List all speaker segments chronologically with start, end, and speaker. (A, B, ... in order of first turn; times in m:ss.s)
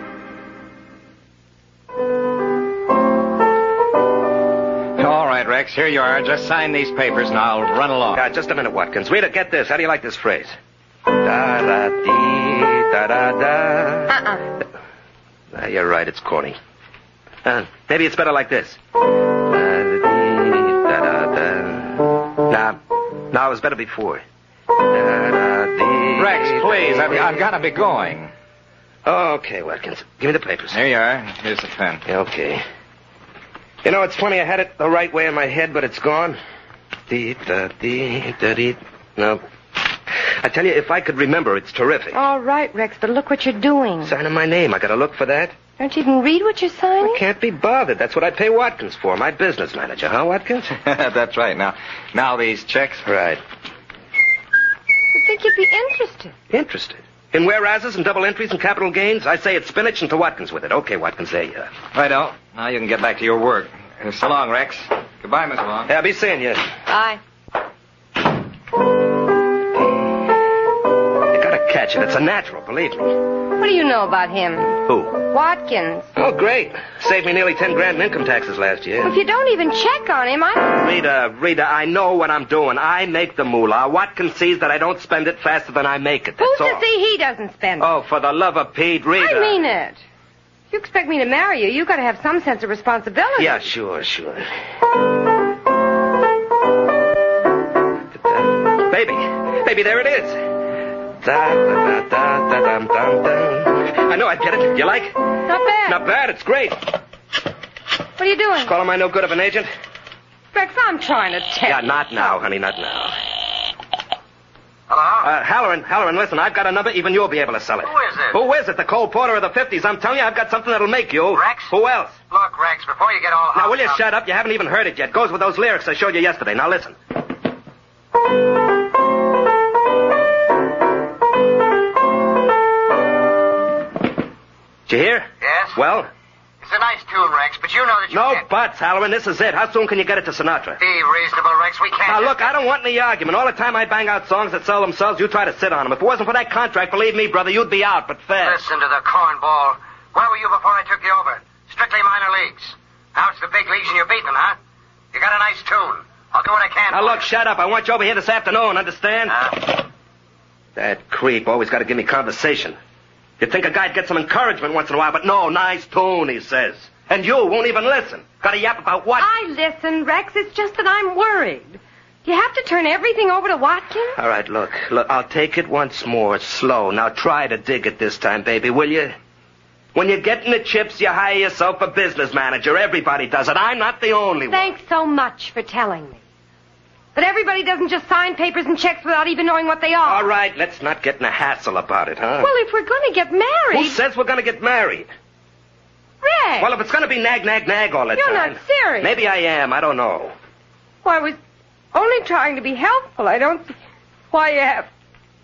0:05.0-0:08.2 A
0:08.2-0:10.6 B
0:11.1-0:14.2 B
0:14.1-0:14.4 C
0:15.5-0:16.6 B
0:17.4-0:22.8 B
0:23.3-0:24.2 B
0:24.8-0:27.3 B
0:26.2-0:28.3 A
0:29.0-0:30.8 B
0:30.7-0:32.0 A
0:32.1-0:32.6 B
0:33.8-0:36.4 B
0:37.1-0:39.4 B
0:40.4-0:42.1 B
0:42.1-0:44.1 C
0:44.0-0:45.6 B
0:45.8-0:47.2 C
0:47.0-0:50.7 B
0:50.7-0:53.1 A
0:53.1-0:53.4 B
0:55.1-0:56.3 C
0:56.5-1:01.7 B
1:01.9-1:05.9 A
1:05.9-1:06.6 B
1:06.9-1:07.2 C
1:11.3-1:13.2 B
1:13.6-1:16.1 C
1:16.2-1:19.1 B
1:19.0-1:20.8 C
1:20.7-1:26.8 B
1:26.4-1:27.9 C
1:27.8-1:29.6 B
1:29.2-1:30.0 C
1:30.7-1:33.6 C
1:33.4-1:34.5 B
1:38.2-1:45.2 B
1:45.5-1:46.0 C
1:45.9-1:46.9 B
1:48.2-1:48.7 C
1:48.6-1:49.7 B
1:50.5-1:52.4 C
1:51.7-1:53.1 B
1:54.9-1:55.3 D
1:55.2-2:02.2 B
1:57.9-1:58.4 D
2:01.3-2:01.7 D
2:02.3-2:04.0 D
2:03.6-2:07.0 B
2:14.9-2:16.1 B
2:15.4-2:15.8 D
2:16.6-2:18.4 D
2:18.1-2:20.8 B
2:20.8-2:22.5 D
2:22.1-2:28.6 B
2:28.4-2:34.6 D
2:35.1-2:37.2 D
2:36.9-2:39.5 B
2:40.8-2:42.8 B
2:43.4-2:49.3 B
2:49.2-2:54.2 C
2:54.2-2:59.2 B
3:00.0-3:04.7 B
3:04.5-3:06.2 C
3:07.2-3:10.3 C
3:10.0-3:12.5 B
3:12.4-3:14.0 C
3:13.7-3:15.1 B
3:16.2-3:16.7 C
3:16.6-3:20.3 B
3:18.2-3:19.1 C
3:21.0-3:21.4 C
3:21.9-3:23.8 C
3:24.3-3:24.9 C